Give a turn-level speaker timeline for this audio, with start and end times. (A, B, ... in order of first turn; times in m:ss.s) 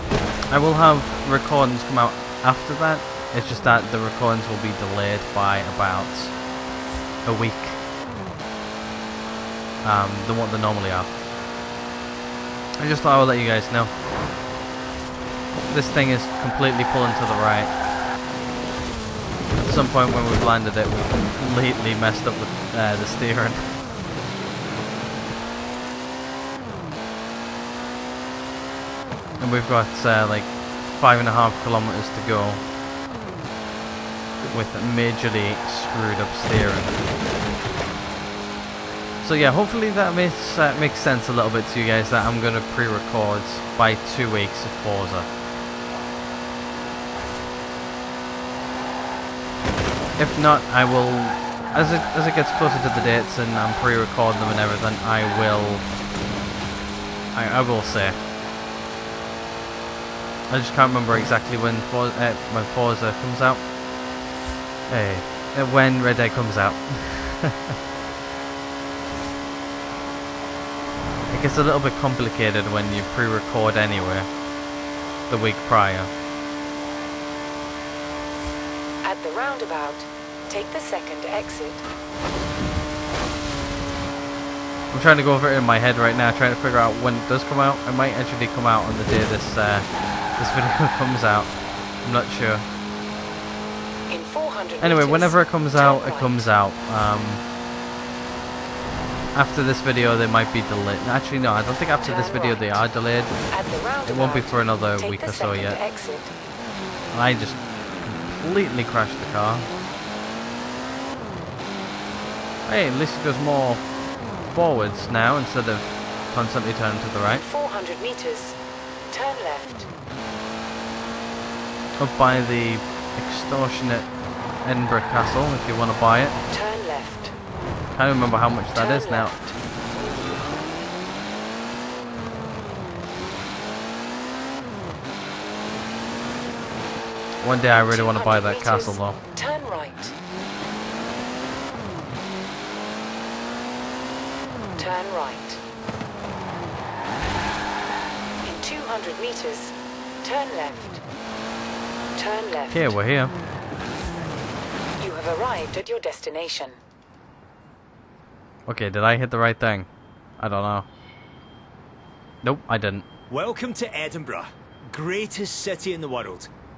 0:00.5-0:06.5 A
0:07.2-0:07.8 A
0:09.8-0:11.1 A
0:12.8-0:14.0 A
0:15.7-0:17.8 A
0:19.6-0:23.7 A
0:29.4-0:32.6 A
0:34.4-0:37.0 A
0:39.2-0:45.3 A
0:50.2-0:55.9 A
0:57.3-0:58.2 A
1:00.5-1:03.7 A
1:04.9-1:07.6 A
1:11.3-1:14.4 A
1:15.3-1:16.1 A
1:19.0-1:21.9 B
1:24.9-1:32.7 A
1:34.1-1:36.5 B
1:34.8-1:37.4 A
1:39.3-1:45.8 A
1:42.0-1:46.3 B
1:47.1-1:49.7 A
1:52.6-1:57.4 A
1:57.3-1:58.6 B
1:59.1-1:59.9 B
2:02.0-2:06.4 A
2:06.5-2:07.4 B
2:07.9-2:09.3 A
2:08.7-2:09.6 B
2:17.4-2:19.2 A
2:17.6-2:20.2 B
2:24.8-2:25.6 B
2:28.4-2:31.0 B
2:32.2-2:33.0 B
2:32.7-2:33.3 A
2:35.0-2:36.8 B
2:38.7-2:40.9 A
2:42.4-2:43.1 A
2:43.3-2:46.5 C